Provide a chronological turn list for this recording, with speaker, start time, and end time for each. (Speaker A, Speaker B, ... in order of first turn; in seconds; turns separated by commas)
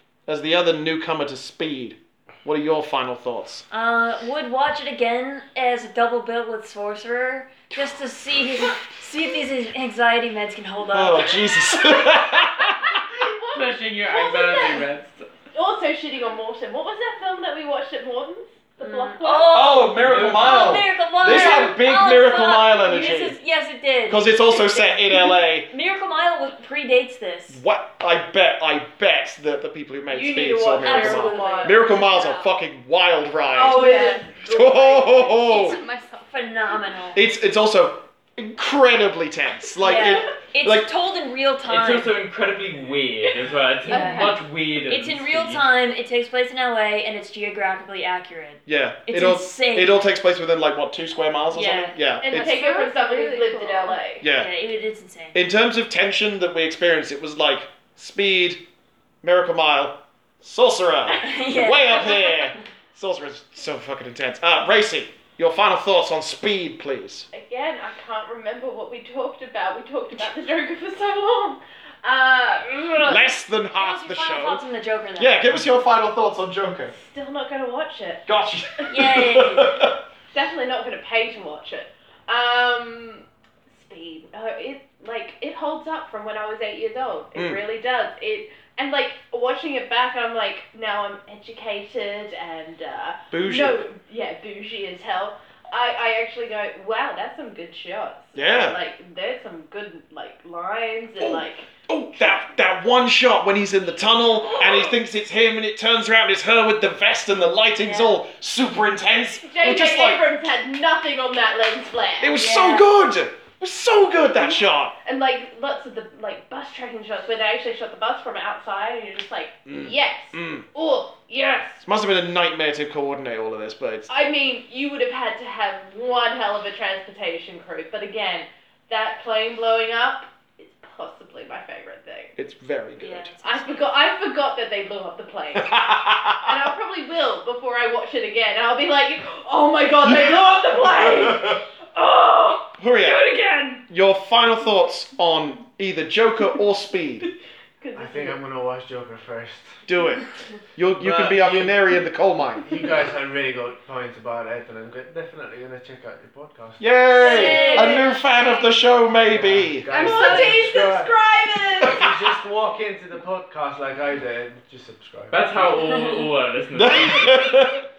Speaker A: 0.3-3.6, Speaker B: 3.7-11.6, Speaker A: 10.9-13.0, Speaker C: 11.6-12.3, Speaker C: 12.9-14.8, Speaker D: 13.4-15.3, Speaker C: 15.5-19.8, Speaker B: 18.8-27.6, Speaker A: 19.5-23.4, Speaker D: 20.0-20.8, Speaker A: 24.1-25.7, Speaker A: 27.5-35.8, Speaker C: 30.1-31.9, Speaker B: 30.8-32.4, Speaker C: 33.5-34.5, Speaker E: 33.7-36.3, Speaker B: 33.9-34.2, Speaker B: 36.3-37.2, Speaker A: 37.1-40.9, Speaker B: 39.8-42.1, Speaker C: 40.0-40.3, Speaker D: 41.7-45.6, Speaker E: 43.9-44.4, Speaker B: 43.9-50.0, Speaker A: 48.6-52.6, Speaker B: 51.5-52.0, Speaker C: 52.2-54.3, Speaker E: 52.3-54.0, Speaker A: 54.2-54.5, Speaker B: 54.2-55.4, Speaker A: 55.3-58.6, Speaker A: 59.2-67.3, Speaker B: 61.2-62.6, Speaker C: 67.3-73.0, Speaker B: 72.7-75.7, Speaker A: 73.0-74.6, Speaker A: 75.2-76.9, Speaker C: 76.9-78.3, Speaker A: 78.3-80.0, Speaker B: 78.9-79.8, Speaker C: 80.3-101.7, Speaker A: 87.3-87.6, Speaker A: 93.3-93.8, Speaker A: 98.3-98.8, Speaker A: 101.2-110.2, Speaker C: 104.4-105.0, Speaker B: 107.8-108.2, Speaker C: 109.4-112.4, Speaker A: 112.2-114.9, Speaker B: 112.3-112.9, Speaker C: 114.3-121.8, Speaker A: 119.7-120.7, Speaker A: 121.8-124.1, Speaker C: 124.1-132.3, Speaker A: 132.4-133.3, Speaker B: 133.0-133.9, Speaker C: 133.4-135.8, Speaker A: 135.5-136.7, Speaker C: 136.3-143.8, Speaker A: 140.0-141.6, Speaker A: 142.8-143.3, Speaker A: 143.9-147.2, Speaker C: 147.8-148.3, Speaker F: 147.9-149.8, Speaker A: 149.9-152.7, Speaker F: 151.0-151.8, Speaker F: 152.7-156.8, Speaker A: 156.8-159.9, Speaker C: 157.1-158.2, Speaker B: 157.2-158.1, Speaker F: 159.2-161.1, Speaker B: 159.9-160.5, Speaker E: 159.9-160.6, Speaker C: 160.0-162.1, Speaker A: 161.8-162.1, Speaker F: 161.8-165.5, Speaker D: 165.3-167.6, Speaker A: 166.8-167.8